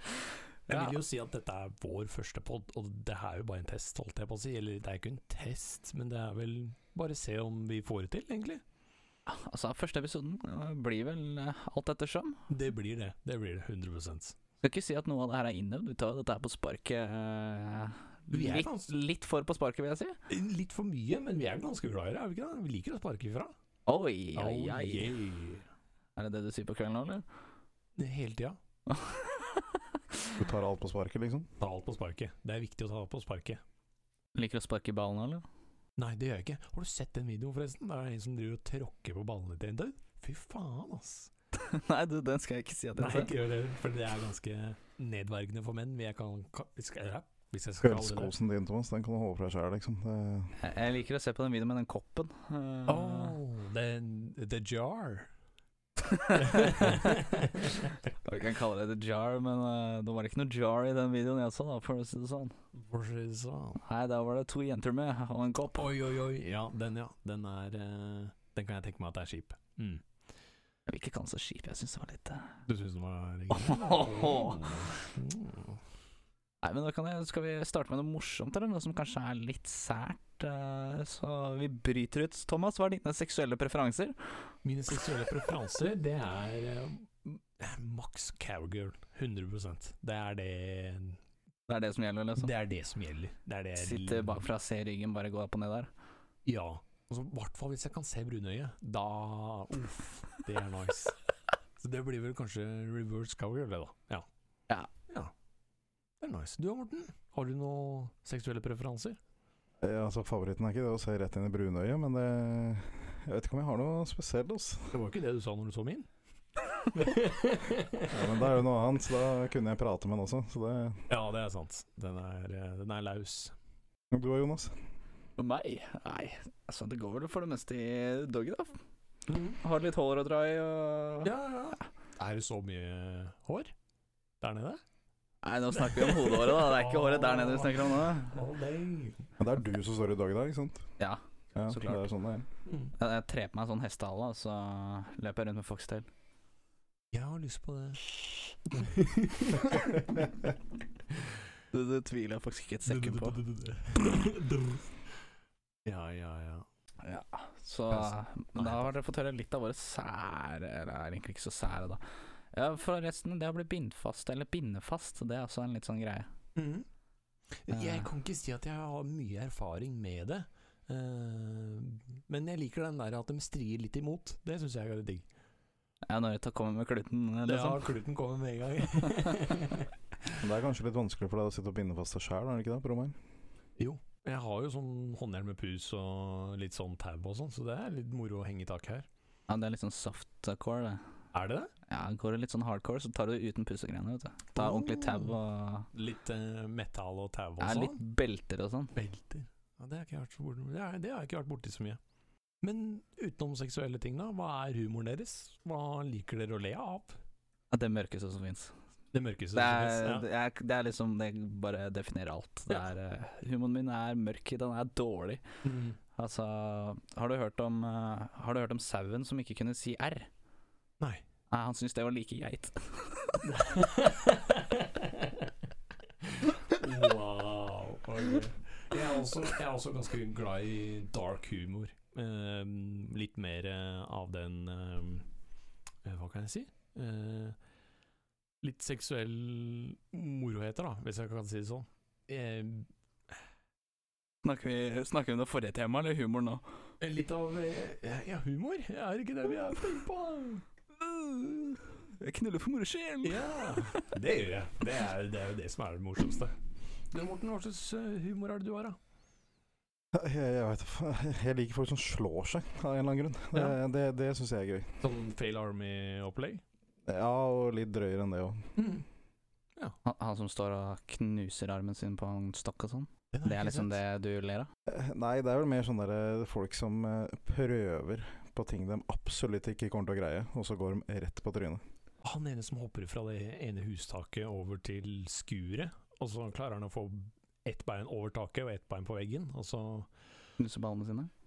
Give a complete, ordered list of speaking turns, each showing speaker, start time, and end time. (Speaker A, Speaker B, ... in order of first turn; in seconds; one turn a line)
Speaker A: 0.7-1.0
Speaker B: 0.7-8.6
Speaker A: 9.3-12.4
Speaker B: 12.5-14.4
Speaker A: 14.6-20.2
Speaker B: 18.3-18.9
Speaker B: 20.3-23.5
Speaker A: 23.9-25.1
Speaker B: 24.4-25.7
Speaker A: 26.2-27.2
Speaker B: 28.0-28.6
Speaker A: 28.9-29.6
Speaker C: 30.4-31.5
Speaker B: 31.6-33.6
Speaker A: 34.4-35.4
Speaker B: 36.0-41.3
Speaker A: 41.6-43.3
Speaker B: 43.0-48.3
Speaker C: 47.8-50.6
Speaker A: 50.6-53.4
Speaker B: 52.9-55.3
Speaker A: 56.1-57.2
Speaker B: 56.3-57.9
Speaker A: 58.2-62.6
Speaker B: 62.7-63.8
Speaker A: 63.8-65.9
Speaker B: 65.8-70.0
Speaker A: 70.9-72.6
Speaker B: 72.7-75.8
Speaker A: 73.5-74.8
Speaker A: 76.6-84.3
Speaker B: 84.6-91.2
Speaker A: 91.7-92.5
Speaker B: 92.4-94.4
Speaker A: 93.8-95.9
Speaker B: 96.5-101.2
Speaker B: 101.8-104.3
Speaker B: 106.2-109.2
Speaker C: 109.8-114.9
Speaker B: 114.9-116.1
Speaker B: 116.9-118.3
Speaker C: 118.1-121.0
Speaker B: 121.1-123.5
Speaker C: 124.1-124.7
Speaker A: 125.4-128.8
Speaker B: 129.3-129.6
Speaker A: 129.6-131.3
Speaker B: 131.2-133.7
Speaker B: 134.4-134.8
Speaker A: 135.4-138.4
Speaker B: 135.8-139.3
Speaker C: 139.4-140.9
Speaker A: 141.0-142.0
Speaker C: 141.6-142.5
Speaker B: 142.7-142.9
Speaker A: 143.0-146.1
Speaker B: 147.1-148.2
Speaker B: 148.7-150.2
Speaker A: 151.7-153.4
Speaker B: 152.9-155.0
Speaker B: 155.8-156.7
Speaker A: 157.0-162.0
Speaker B: 157.9-158.9
Speaker A: 162.5-166.3
Speaker B: 166.6-166.9
Speaker B: 167.6-175.2
Speaker A: 167.7-168.1
Speaker A: 176.1-177.9
Speaker B: 177.5-179.9
Speaker C: 180.4-183.2
Speaker B: 183.8-189.1
Speaker A: 189.5-191.0
Speaker B: 191.3-191.7
Speaker A: 191.9-195.9
Speaker B: 194.6-195.4
Speaker B: 195.9-198.0
Speaker A: 197.6-198.9
Speaker B: 198.9-202.0
Speaker B: 202.6-207.2
Speaker A: 207.7-208.7
Speaker B: 209.1-210.3
Speaker A: 209.5-215.4
Speaker B: 215.6-216.0
Speaker A: 216.2-220.3
Speaker A: 221.5-223.4
Speaker B: 223.4-225.5
Speaker B: 226.2-235.3
Speaker B: 236.1-237.6
Speaker B: 238.6-242.9
Speaker A: 244.4-246.6
Speaker B: 247.0-250.6
Speaker A: 251.0-254.1
Speaker B: 253.2-256.6
Speaker B: 257.1-259.0
Speaker C: 260.1-265.0
Speaker B: 265.0-266.6
Speaker C: 267.1-268.7
Speaker B: 268.8-269.1
Speaker A: 270.0-274.7
Speaker B: 273.3-274.0
Speaker C: 274.9-281.8
Speaker B: 282.2-290.1
Speaker A: 290.6-291.3